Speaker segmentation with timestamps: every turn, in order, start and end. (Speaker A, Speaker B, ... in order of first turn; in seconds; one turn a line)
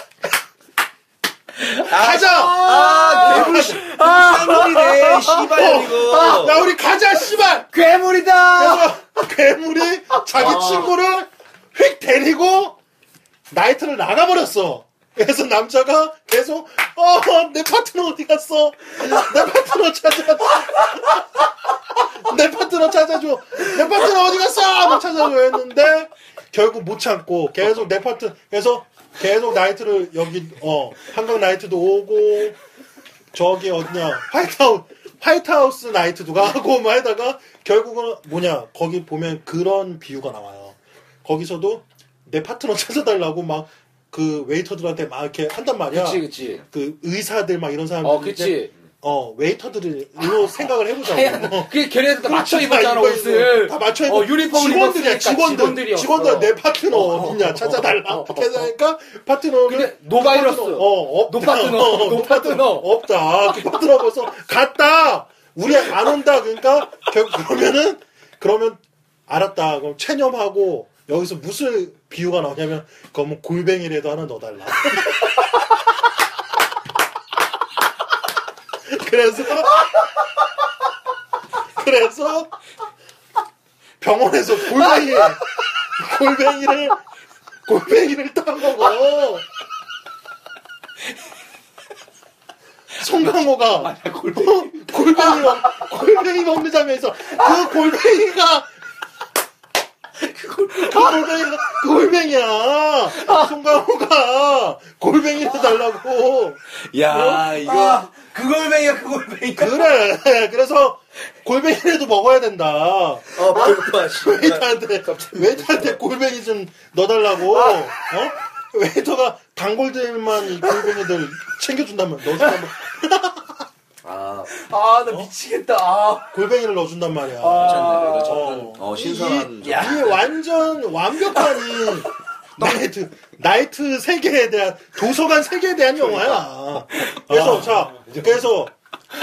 Speaker A: 1.7-6.6
Speaker B: 1.8-6.6
Speaker C: 1.8-3.9
Speaker C: 5.4-7.7
Speaker A: 7.7-9.0
Speaker C: 8.6-12.8
Speaker A: 10.1-10.9
Speaker C: 13.5-21.2
Speaker C: 22.1-32.6
Speaker C: 33.3-75.5
Speaker A: 45.9-46.6
Speaker A: 48.0-48.7
Speaker A: 50.2-58.7
Speaker A: 59.7-62.9
Speaker C: 78.9-79.8
Speaker C: 81.8-82.5
Speaker C: 84.0-87.0
Speaker C: 87.7-89.5
Speaker C: 93.0-98.7
Speaker A: 93.3-95.8
Speaker A: 100.2-101.2
Speaker C: 100.8-106.6
Speaker A: 103.1-103.5
Speaker B: 106.9-109.7
Speaker A: 107.1-109.7
Speaker C: 109.6-123.6
Speaker B: 113.3-116.0
Speaker A: 117.5-117.8
Speaker A: 120.6-121.0
Speaker B: 124.0-124.5
Speaker A: 124.5-126.3
Speaker C: 126.3-138.7
Speaker A: 127.4-128.6
Speaker B: 127.5-130.1
Speaker A: 129.6-130.2
Speaker A: 136.0-136.4
Speaker A: 136.9-138.5